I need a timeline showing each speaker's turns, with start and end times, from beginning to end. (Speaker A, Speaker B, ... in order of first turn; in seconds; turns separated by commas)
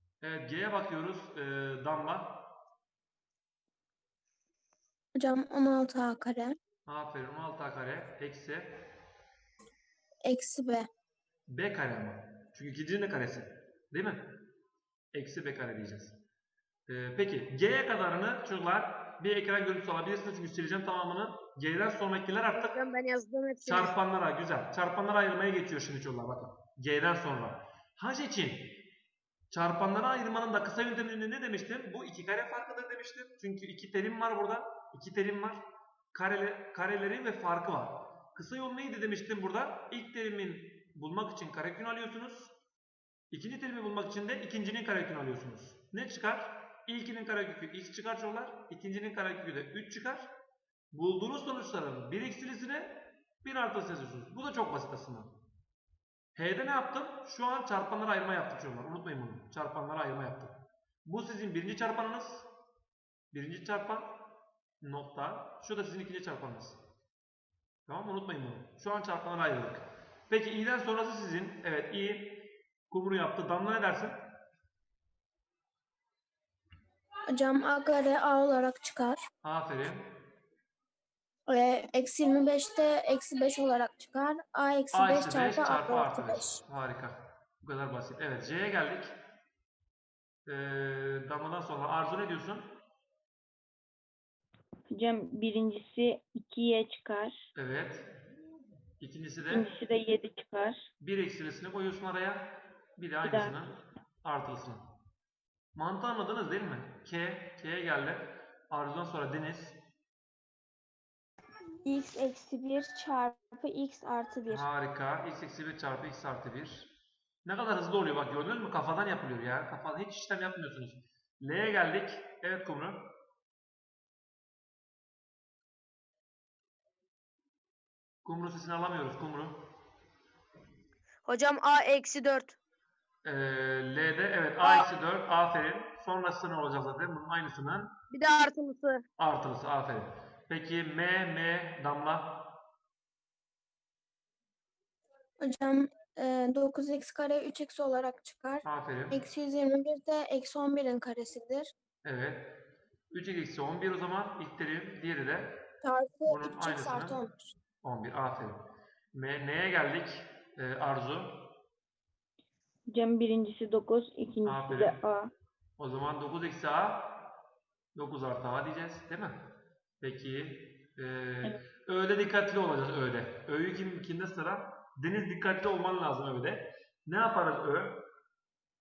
Speaker A: 0.2-2.4, Speaker B: 5.2-6.5, Speaker A: 6.9-8.8, Speaker B: 10.2-10.9, Speaker A: 11.5-14.4, Speaker A: 15.1-16.2, Speaker A: 16.9-22.7, Speaker C: 22.5-23.9, Speaker A: 23.6-28.8, Speaker A: 29.5-42.5, Speaker A: 43.3-50.3, Speaker A: 50.9-55.4, Speaker A: 56.4-62.5, Speaker A: 63.3-64.2, Speaker A: 64.8-66.8, Speaker A: 67.9-74.2, Speaker B: 77.3-79.2, Speaker A: 79.4-80.2, Speaker B: 81.5-86.6, Speaker A: 84.9-89.1, Speaker A: 90.5-92.7, Speaker D: 94.9-97.3, Speaker A: 97.5-98.1, Speaker A: 99.0-99.7, Speaker D: 99.5-100.8, Speaker A: 101.0-104.9, Speaker D: 103.2-103.5, Speaker A: 105.8-109.8, Speaker E: 111.8-114.7, Speaker A: 114.5-116.9, Speaker A: 117.4-123.1, Speaker A: 128.2-129.7, Speaker C: 131.2-132.6, Speaker A: 133.2-137.9, Speaker C: 138.1-139.0, Speaker A: 139.2-142.4, Speaker B: 145.4-151.7, Speaker A: 148.6-149.2, Speaker A: 152.0-152.6, Speaker A: 153.1-155.6, Speaker B: 155.8-157.5, Speaker A: 156.2-157.2, Speaker A: 157.8-158.6, Speaker A: 159.1-161.5, Speaker D: 162.9-165.3, Speaker A: 164.4-165.0, Speaker A: 165.8-167.1, Speaker A: 167.9-169.5, Speaker A: 170.0-178.0